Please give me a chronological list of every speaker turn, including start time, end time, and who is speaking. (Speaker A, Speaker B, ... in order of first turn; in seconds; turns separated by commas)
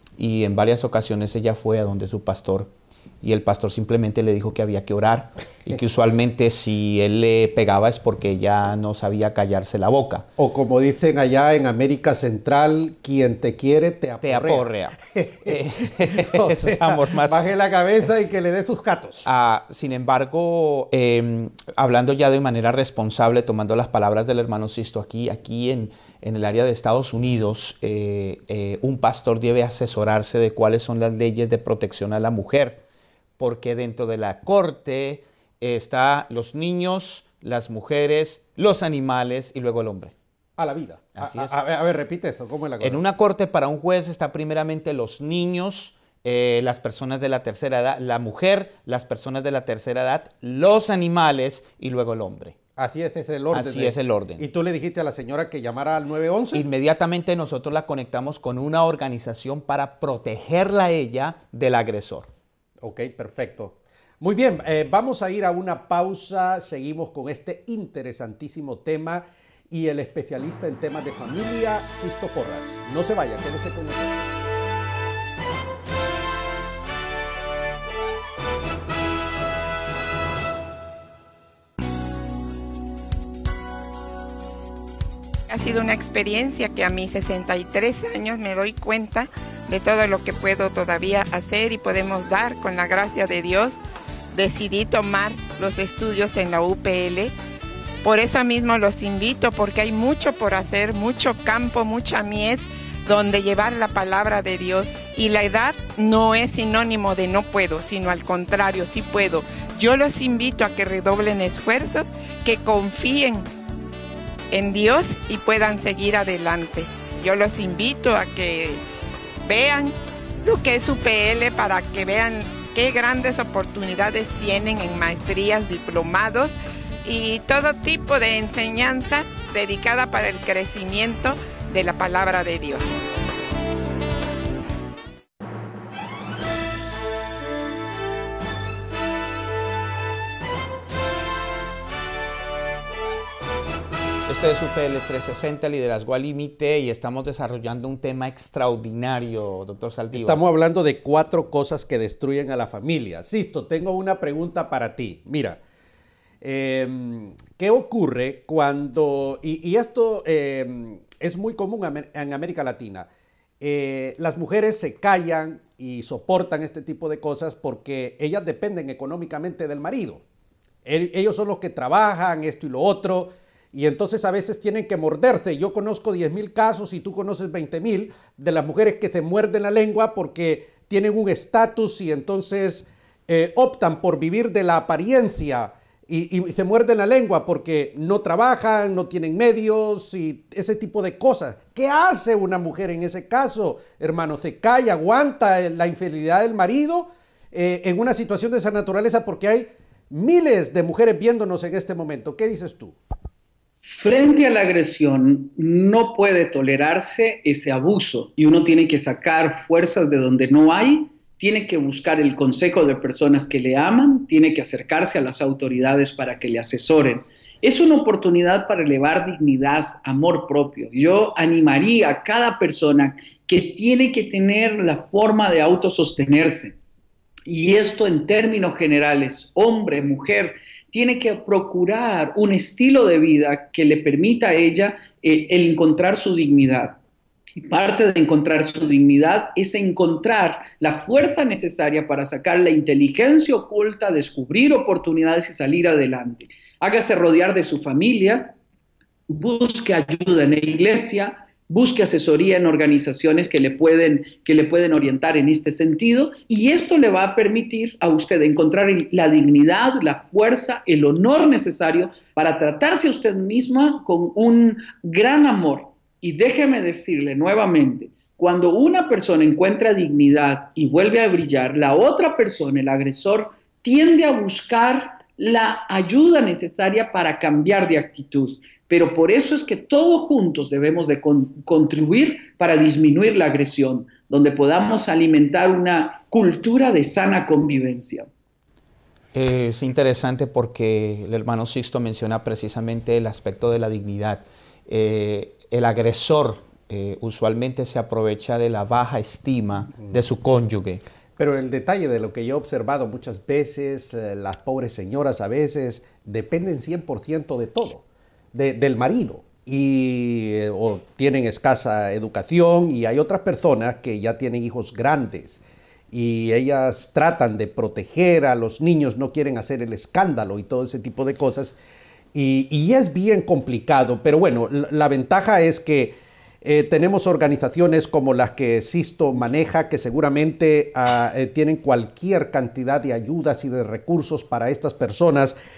Speaker A: 0.2-2.7, Speaker A: 3.2-10.3, Speaker B: 10.4-19.3, Speaker A: 14.2-17.4, Speaker A: 19.2-32.8, Speaker A: 33.4-40.1, Speaker B: 40.6-43.0, Speaker A: 41.2-41.6, Speaker A: 42.8-52.6, Speaker B: 52.8-56.6, Speaker A: 53.5-54.4, Speaker A: 56.5-62.3, Speaker B: 62.8-74.4, Speaker C: 85.5-93.8, Speaker C: 94.3-97.3, Speaker C: 98.0-113.5, Speaker C: 114.5-118.8, Speaker C: 119.4-126.5, Speaker C: 127.0-132.9, Speaker A: 144.3-150.4, Speaker B: 150.1-155.6, Speaker B: 156.4-163.1, Speaker B: 163.6-170.2, Speaker B: 170.8-203.0, Speaker D: 203.8-226.8, Speaker D: 227.5-237.0, Speaker D: 237.6-248.6, Speaker D: 249.3-288.3, Speaker A: 289.3-301.0, Speaker B: 301.4-321.8, Speaker B: 322.3-335.6